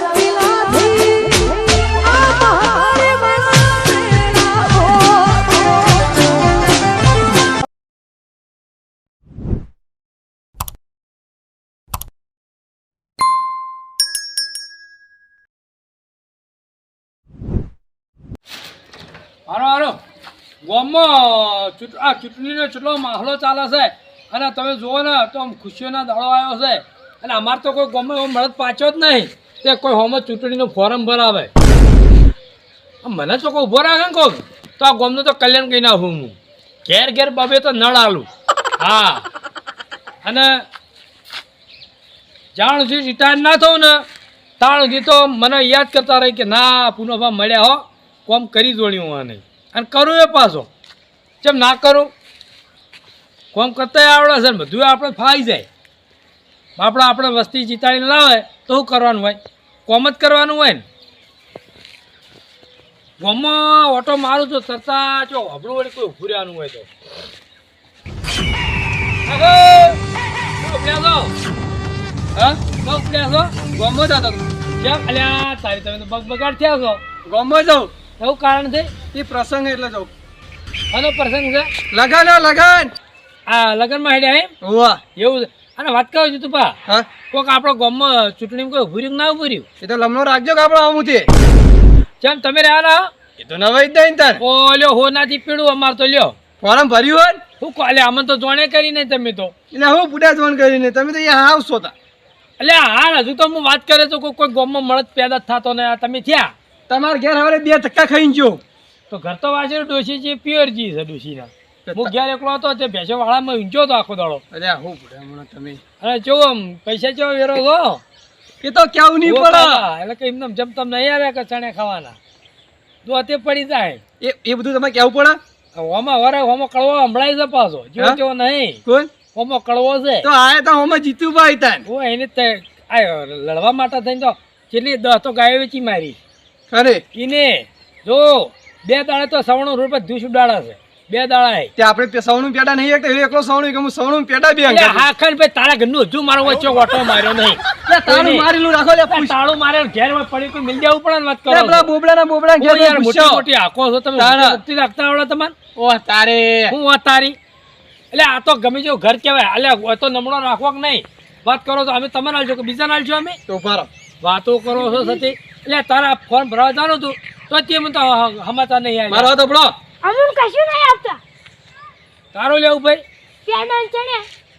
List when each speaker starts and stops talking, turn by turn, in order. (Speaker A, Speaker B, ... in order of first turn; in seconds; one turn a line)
Speaker A: 19.5-20.0
Speaker A: 20.6-31.5
Speaker A: 33.0-38.3
Speaker A: 38.8-39.2
Speaker A: 40.2-40.6
Speaker A: 42.5-44.0
Speaker A: 44.6-50.7
Speaker A: 51.4-52.1
Speaker A: 53.5-55.7
Speaker A: 56.8-60.8
Speaker A: 63.2-66.9
Speaker A: 69.2-70.0
Speaker A: 70.6-71.3
Speaker A: 72.8-73.6
Speaker B: 73.7-74.5
Speaker A: 74.8-77.0
Speaker B: 77.2-77.9
Speaker A: 78.2-78.9
Speaker B: 79.1-80.1
Speaker A: 80.9-81.7
Speaker B: 81.9-82.9
Speaker A: 83.5-84.5
Speaker B: 84.6-85.0
Speaker A: 85.2-86.8
Speaker A: 87.3-89.7
Speaker B: 89.8-91.3
Speaker A: 92.2-93.1
Speaker B: 93.4-94.4
Speaker A: 94.4-96.3
Speaker B: 96.6-97.4
Speaker A: 97.6-99.5
Speaker B: 99.7-101.9
Speaker A: 102.6-106.5
Speaker B: 106.9-108.6
Speaker A: 109.1-114.4
Speaker B: 111.8-112.1
Speaker B: 114.5-115.8
Speaker A: 116.0-118.0
Speaker B: 118.6-119.8
Speaker A: 119.2-122.2
Speaker A: 123.0-124.0
Speaker B: 124.2-125.4
Speaker A: 125.7-128.8
Speaker B: 128.8-129.1
Speaker A: 129.3-130.3
Speaker B: 130.2-131.8
Speaker A: 131.8-136.2
Speaker B: 136.7-137.0
Speaker A: 137.1-141.7
Speaker B: 141.8-145.1
Speaker A: 144.6-148.5
Speaker B: 147.9-149.3
Speaker A: 149.1-151.9
Speaker B: 151.5-153.4
Speaker A: 152.6-155.5
Speaker B: 154.2-154.6
Speaker B: 155.8-156.8
Speaker A: 156.7-157.4
Speaker A: 158.1-163.4
Speaker B: 163.5-163.9
Speaker A: 164.2-169.3
Speaker C: 164.7-165.2
Speaker B: 169.1-169.8
Speaker C: 170.0-171.2
Speaker A: 172.3-173.0
Speaker C: 173.4-174.3